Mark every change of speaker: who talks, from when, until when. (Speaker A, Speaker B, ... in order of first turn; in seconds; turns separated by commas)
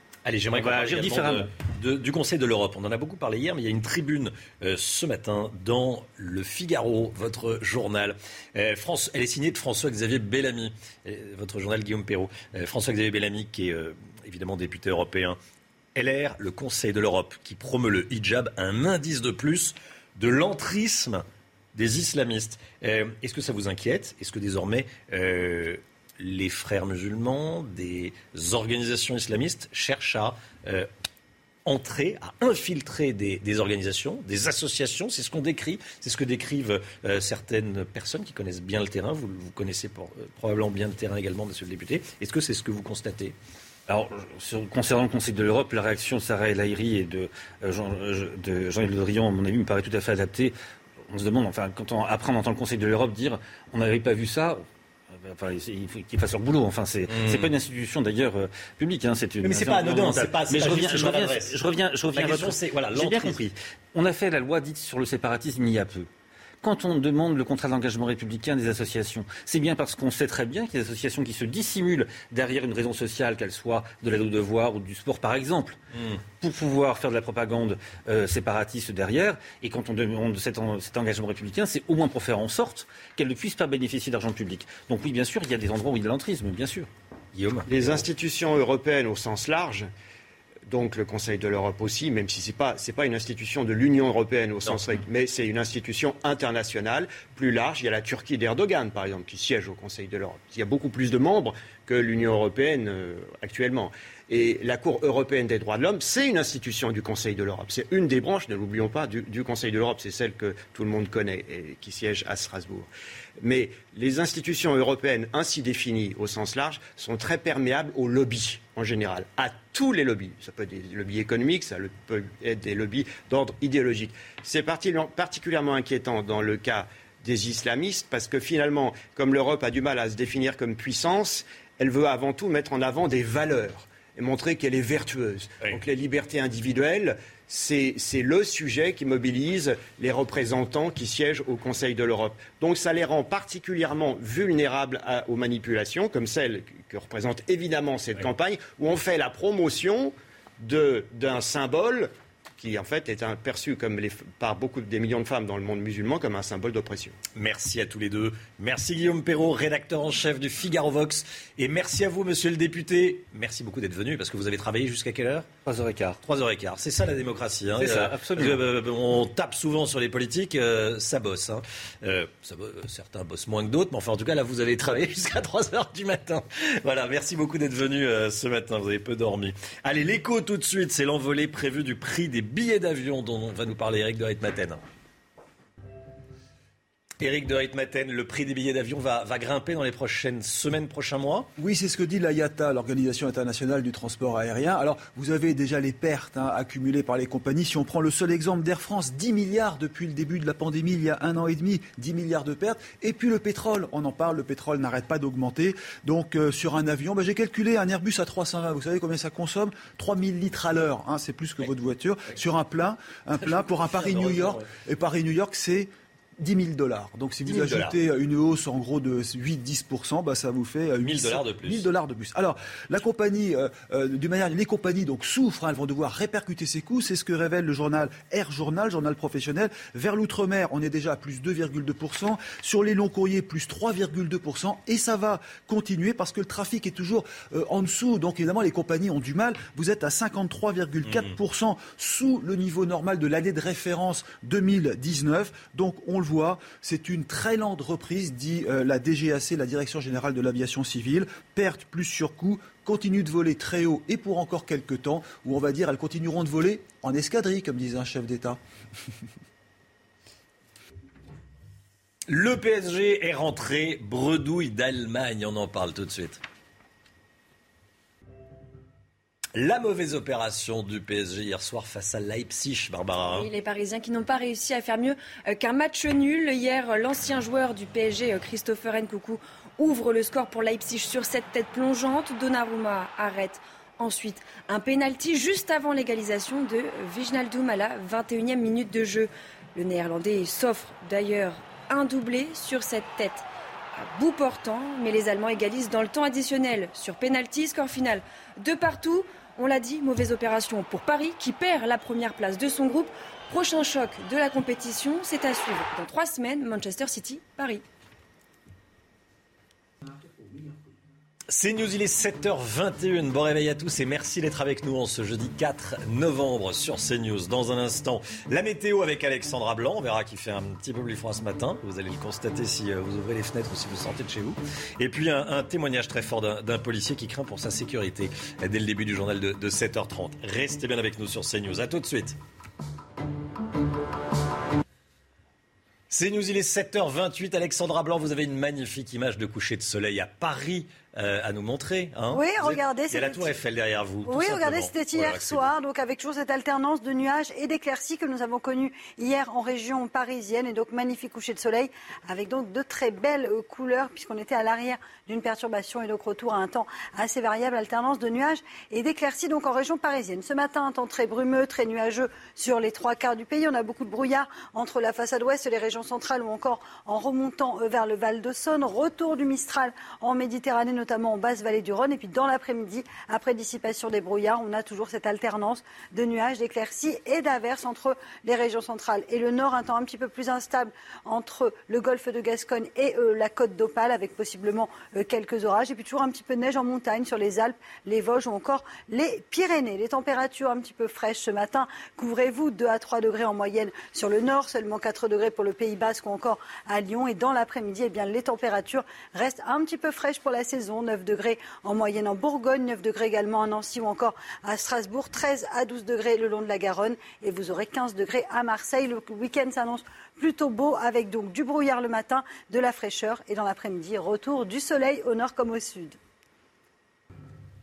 Speaker A: 0.2-15.4, Speaker B: 0.5-1.5, Speaker A: 15.9-21.2, Speaker A: 21.7-30.9, Speaker A: 31.6-43.4, Speaker B: 43.9-50.5, Speaker B: 51.1-66.1, Speaker A: 57.1-57.5, Speaker A: 59.4-63.4, Speaker B: 66.6-75.8, Speaker B: 76.3-86.9, Speaker A: 87.3-87.9, Speaker C: 87.7-89.9, Speaker C: 90.7-112.9, Speaker C: 113.4-157.2, Speaker A: 157.3-165.5, Speaker B: 165.7-166.2, Speaker A: 166.2-184.8, Speaker B: 167.7-168.7, Speaker A: 187.2-191.5, Speaker D: 191.6-258.6, Speaker A: 213.4-214.6, Speaker A: 217.4-218.0, Speaker A: 221.0-221.9, Speaker A: 241.1-241.3, Speaker A: 262.3-266.4, Speaker A: 269.5-273.5, Speaker E: 273.2-293.4, Speaker E: 293.9-307.8, Speaker A: 311.5-332.4, Speaker A: 336.1-345.7, Speaker F: 342.3-343.6, Speaker F: 344.2-416.1